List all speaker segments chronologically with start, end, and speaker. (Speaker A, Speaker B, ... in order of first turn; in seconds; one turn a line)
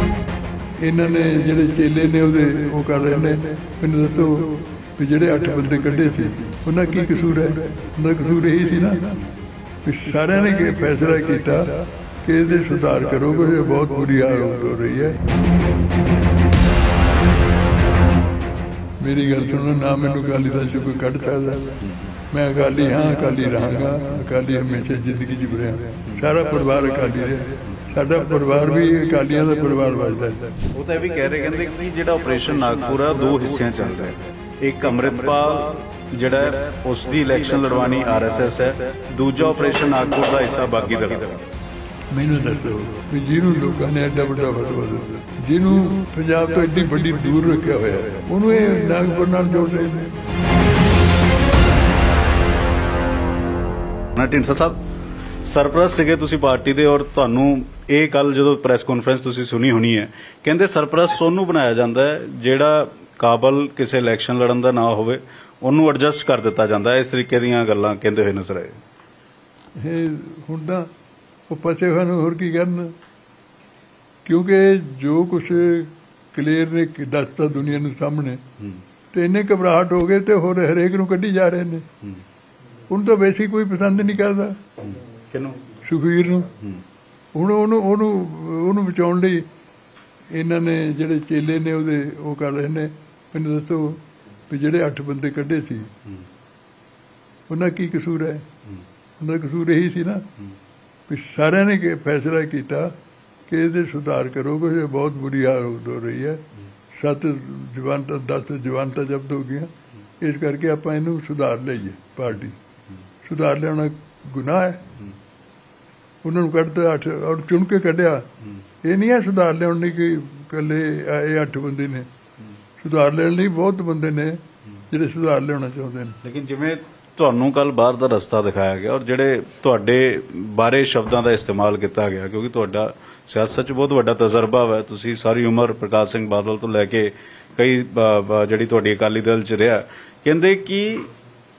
Speaker A: 0.8-9.2
Speaker A: 9.8-15.2
Speaker A: 19.0-21.8
Speaker B: 21.8-22.1
Speaker A: 22.3-30.6
Speaker B: 30.7-41.5
Speaker A: 42.1-50.2
Speaker B: 54.1-54.8
Speaker B: 55.4-68.8
Speaker A: 69.8-70.9
Speaker A: 71.5-72.9
Speaker A: 74.2-78.4
Speaker A: 79.1-81.9
Speaker A: 82.9-84.6
Speaker B: 84.8-85.7
Speaker A: 85.8-86.5
Speaker A: 87.3-89.5
Speaker A: 90.3-95.9
Speaker A: 97.5-98.5
Speaker A: 99.2-100.2
Speaker A: 101.1-102.9
Speaker A: 103.5-112.6
Speaker A: 113.2-114.9
Speaker A: 116.2-118.3
Speaker A: 118.8-122.1
Speaker A: 122.8-126.2
Speaker B: 126.2-141.1